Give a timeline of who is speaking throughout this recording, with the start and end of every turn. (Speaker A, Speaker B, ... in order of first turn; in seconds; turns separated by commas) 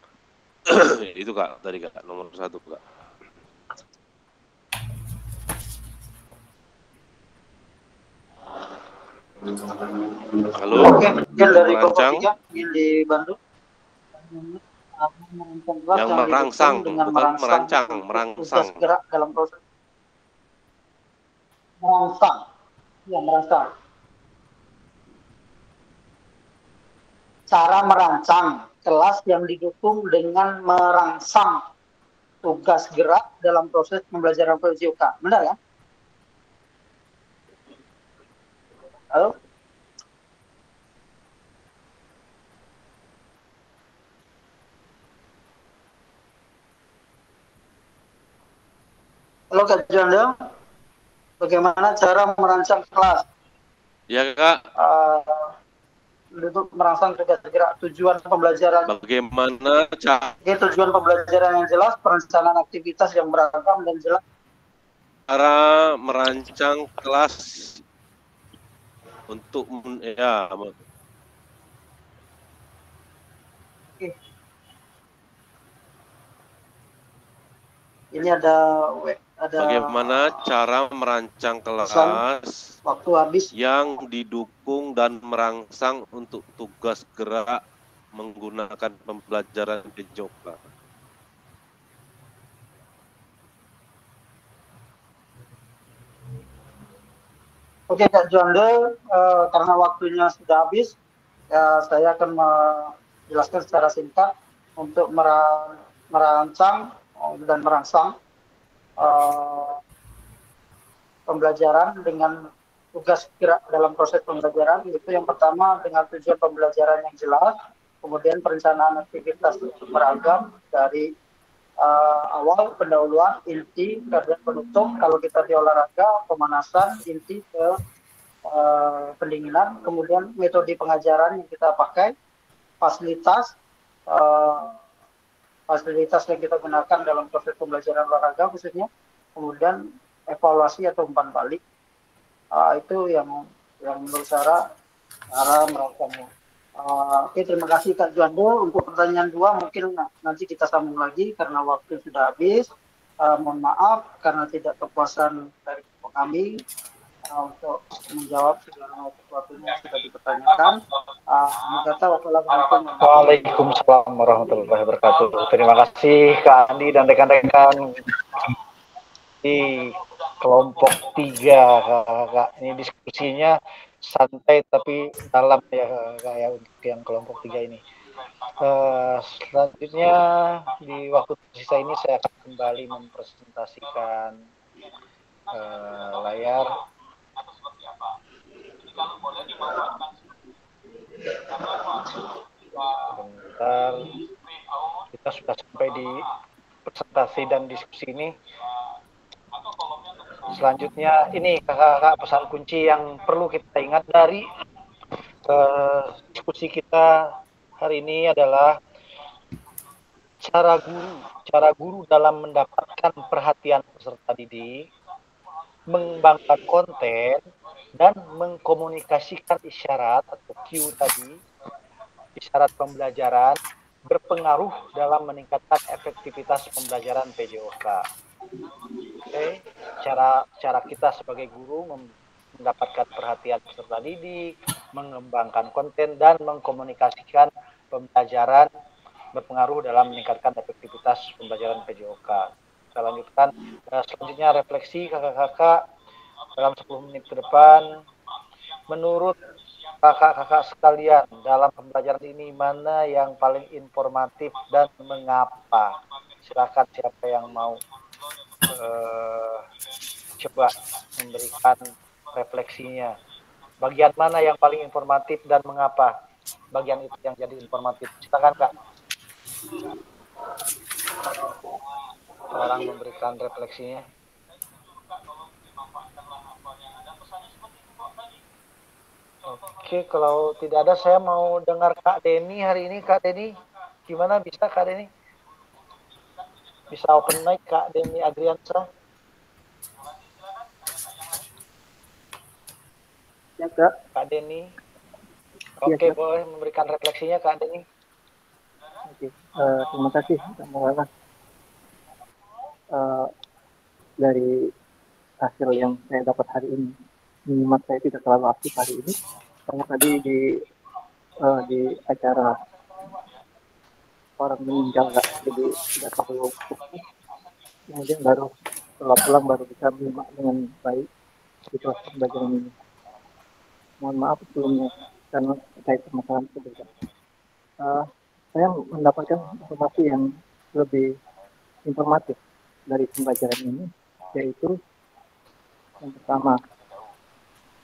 Speaker A: 0.7-2.8, Speaker A: 10.6-12.2, Speaker B: 10.7-13.4, Speaker B: 14.2-19.5, Speaker A: 15.9-18.8, Speaker B: 21.8-22.4, Speaker B: 23.1-23.6, Speaker B: 27.5-31.6, Speaker B: 32.4-35.6, Speaker B: 49.5-50.3, Speaker B: 51.4-53.2, Speaker A: 54.1-54.6, Speaker B: 54.8-55.3, Speaker B: 56.4-58.9, Speaker A: 58.9-60.3, Speaker B: 60.4-64.2, Speaker A: 65.3-67.8, Speaker A: 69.3-70.7, Speaker B: 78.1-80.5, Speaker A: 79.6-82.7, Speaker B: 81.8-82.2, Speaker B: 82.9-83.5, Speaker A: 83.5-87.6, Speaker A: 88.2-90.6, Speaker B: 97.9-100.9, Speaker B: 101.5-108.1, Speaker B: 109.0-109.8, Speaker B: 111.3-112.3, Speaker B: 112.9-117.5, Speaker B: 118.0-121.1, Speaker B: 121.8-127.7, Speaker B: 128.5-132.1, Speaker B: 132.8-133.5, Speaker B: 134.1-134.7, Speaker B: 135.7-141.6, Speaker B: 142.5-144.6, Speaker B: 145.3-146.3, Speaker B: 146.8-152.7, Speaker B: 153.2-156.5, Speaker B: 157.3-160.8, Speaker B: 161.3-163.5, Speaker C: 163.0-167.8, Speaker C: 169.4-177.8, Speaker C: 178.6-184.3, Speaker C: 185.5-186.7, Speaker C: 193.1-194.2, Speaker C: 195.1-196.2, Speaker C: 196.9-198.3, Speaker C: 200.5-204.5, Speaker C: 205.5-207.2, Speaker C: 207.8-208.8, Speaker C: 210.4-214.8, Speaker C: 215.9-217.4, Speaker C: 218.0-221.4, Speaker C: 222.4-228.0, Speaker C: 229.3-238.7, Speaker C: 239.3-245.8, Speaker C: 246.6-247.9, Speaker C: 248.9-249.4, Speaker C: 250.0-255.9, Speaker C: 256.4-257.8, Speaker C: 258.7-259.6, Speaker C: 260.4-261.8, Speaker C: 262.3-263.1, Speaker C: 263.8-266.1, Speaker C: 266.7-268.7, Speaker C: 272.5-274.0, Speaker C: 279.5-283.5, Speaker C: 284.1-285.1, Speaker C: 286.9-288.9, Speaker D: 293.6-293.9, Speaker C: 294.1-294.7, Speaker C: 295.8-297.8, Speaker D: 295.9-296.1, Speaker D: 299.1-301.1, Speaker D: 302.9-303.3, Speaker D: 304.2-304.5, Speaker D: 305.4-306.9, Speaker D: 307.5-309.1, Speaker D: 309.7-310.4, Speaker D: 311.4-312.5, Speaker D: 314.4-317.0, Speaker D: 317.9-318.5, Speaker D: 319.0-321.1, Speaker D: 321.7-322.7, Speaker D: 324.0-326.9, Speaker D: 328.6-331.1, Speaker D: 331.9-332.4, Speaker D: 332.9-334.8, Speaker D: 336.0-336.6